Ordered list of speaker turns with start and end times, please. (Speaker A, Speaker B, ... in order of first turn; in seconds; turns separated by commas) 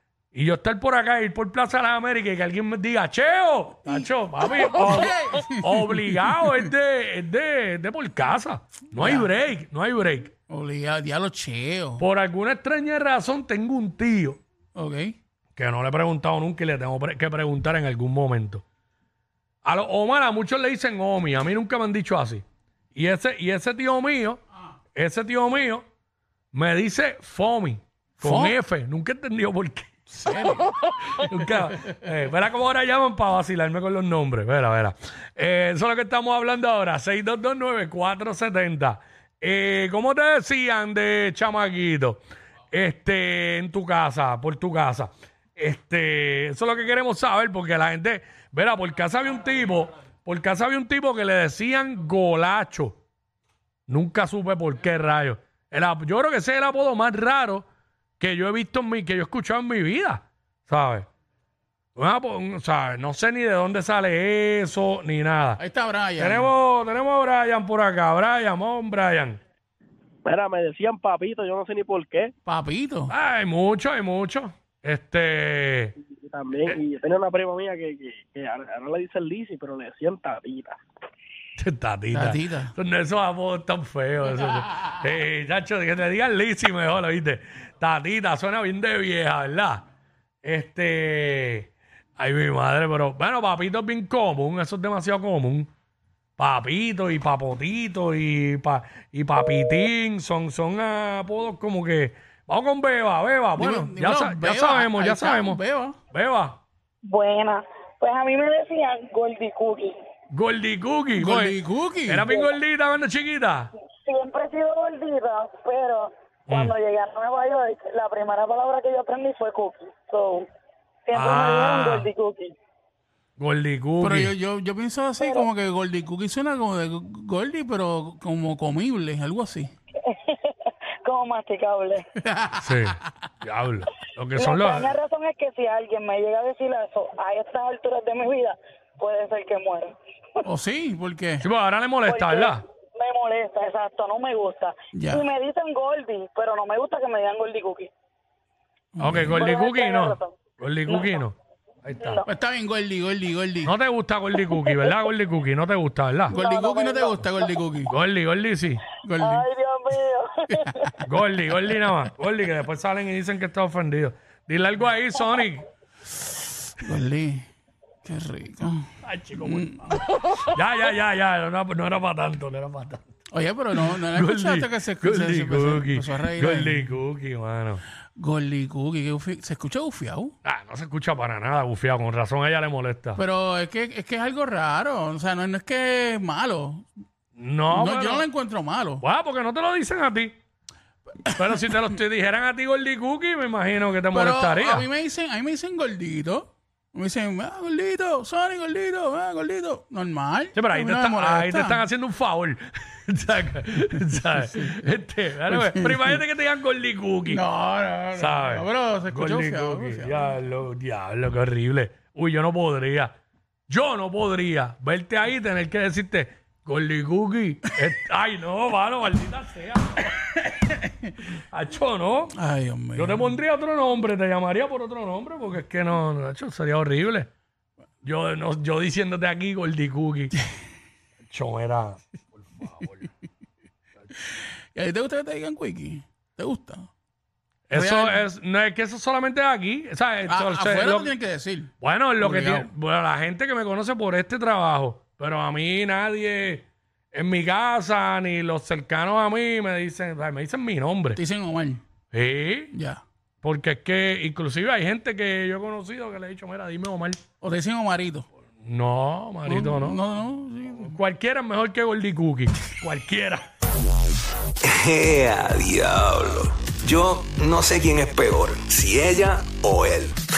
Speaker A: 0.3-10.3, Speaker B: 3.9-6.7, Speaker B: 8.9-9.3, Speaker B: 10.5-12.0, Speaker A: 12.0-14.4, Speaker B: 14.8-15.1, Speaker A: 15.6-18.6, Speaker A: 19.6-22.4, Speaker A: 22.9-24.4, Speaker A: 24.9-25.9, Speaker A: 26.5-29.9, Speaker B: 28.2-28.6, Speaker B: 30.1-30.7, Speaker A: 30.5-53.0, Speaker A: 53.9-57.7, Speaker A: 58.2-61.1, Speaker A: 62.0-65.6, Speaker B: 65.6-66.5, Speaker A: 66.2-69.4, Speaker C: 70.2-72.3, Speaker B: 72.5-73.1, Speaker A: 73.1-76.0, Speaker C: 76.0-80.8, Speaker A: 81.6-89.8, Speaker B: 82.1-82.7, Speaker A: 90.4-95.7, Speaker A: 96.4-105.6, Speaker B: 103.6-106.0, Speaker A: 106.1-106.6, Speaker D: 107.1-110.0, Speaker A: 110.3-113.7, Speaker B: 111.2-112.3, Speaker D: 114.0-120.5, Speaker A: 116.5-116.7, Speaker D: 121.1-122.5, Speaker A: 121.1-122.1, Speaker A: 123.4-124.3, Speaker B: 124.0-129.7, Speaker D: 125.2-125.5, Speaker D: 130.1-132.1, Speaker B: 132.2-132.8, Speaker A: 132.6-134.9, Speaker D: 134.4-140.4, Speaker B: 140.4-141.4, Speaker A: 141.4-142.6, Speaker D: 142.1-147.9, Speaker B: 144.9-145.2, Speaker B: 148.9-149.5, Speaker A: 149.0-152.2, Speaker D: 149.2-150.4, Speaker B: 152.3-153.7, Speaker A: 153.7-156.3, Speaker D: 156.3-157.5, Speaker B: 156.3-157.9, Speaker A: 157.9-158.8, Speaker B: 159.0-159.4, Speaker D: 159.2-161.0, Speaker A: 161.0-165.7, Speaker B: 166.8-167.5, Speaker B: 168.1-168.9, Speaker A: 169.0-173.1, Speaker B: 169.4-169.9, Speaker B: 173.3-177.0, Speaker A: 173.8-177.8, Speaker B: 178.2-180.3, Speaker A: 180.4-183.2, Speaker B: 183.2-186.9, Speaker A: 187.4-188.3, Speaker B: 187.7-189.0, Speaker A: 189.0-190.3, Speaker B: 191.3-191.6, Speaker A: 191.3-194.9, Speaker B: 194.1-201.8, Speaker A: 200.6-207.4, Speaker B: 204.2-204.8, Speaker B: 205.5-206.2, Speaker B: 207.3-210.2, Speaker A: 208.2-213.1, Speaker A: 213.7-220.1, Speaker B: 220.6-221.1, Speaker A: 221.3-222.3, Speaker B: 222.3-223.4, Speaker A: 222.9-227.3, Speaker A: 228.0-230.4, Speaker A: 231.3-233.0, Speaker B: 234.2-236.9, Speaker A: 237.7-241.1, Speaker B: 237.7-238.2, Speaker B: 240.3-242.7, Speaker A: 241.8-251.2, Speaker B: 251.2-251.8, Speaker A: 252.1-252.7, Speaker B: 252.7-253.0, Speaker A: 253.4-257.2, Speaker B: 257.4-258.3, Speaker A: 258.6-260.0, Speaker B: 259.5-261.0, Speaker A: 260.9-263.5, Speaker E: 264.6-270.2